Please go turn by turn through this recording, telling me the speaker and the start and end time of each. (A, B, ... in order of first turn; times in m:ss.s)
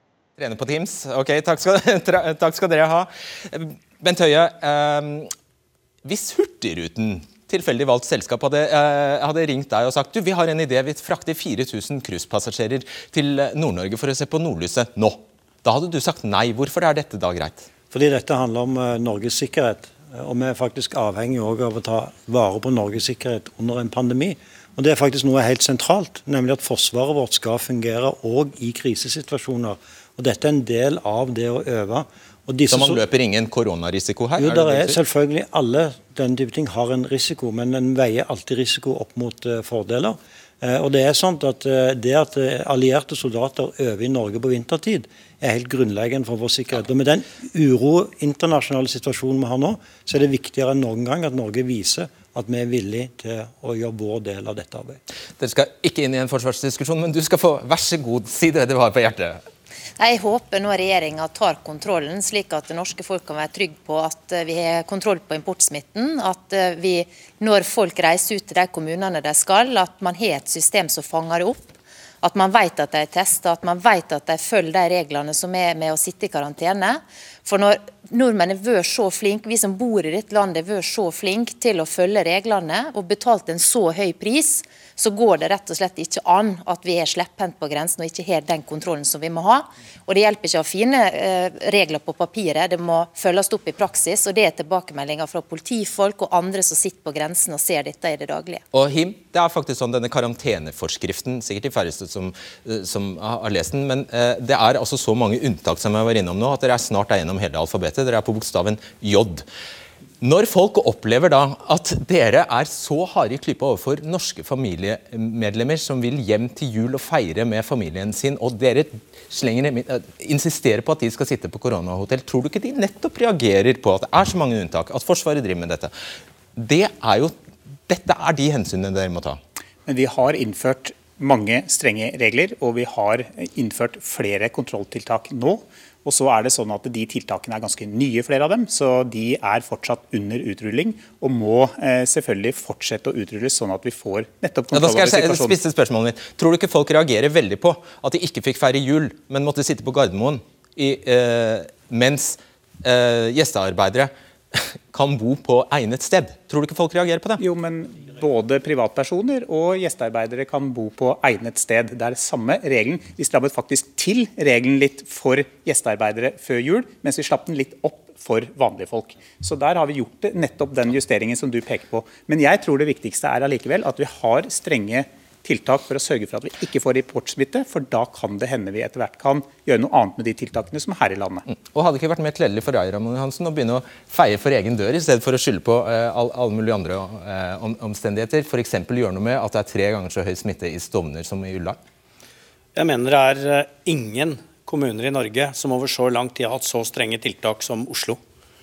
0:00.4-0:05.3 A
0:06.0-0:17.7 A
0:17.9-0:33.0 B
0:32.7-0:35.0 A
0:34.4-0:55.0 B
0:55.4-0:59.4 A
1:00.0-1:11.6 C
1:12.2-1:38.6 C
1:38.7-1:49.4 A
1:50.2-2:05.9 A
2:06.6-2:07.3 A
2:07.9-2:09.4 A
2:09.9-2:25.6 D
2:24.7-2:37.4 A
2:37.4-3:01.4 D
3:01.5-3:11.8 A
3:12.7-3:18.2 E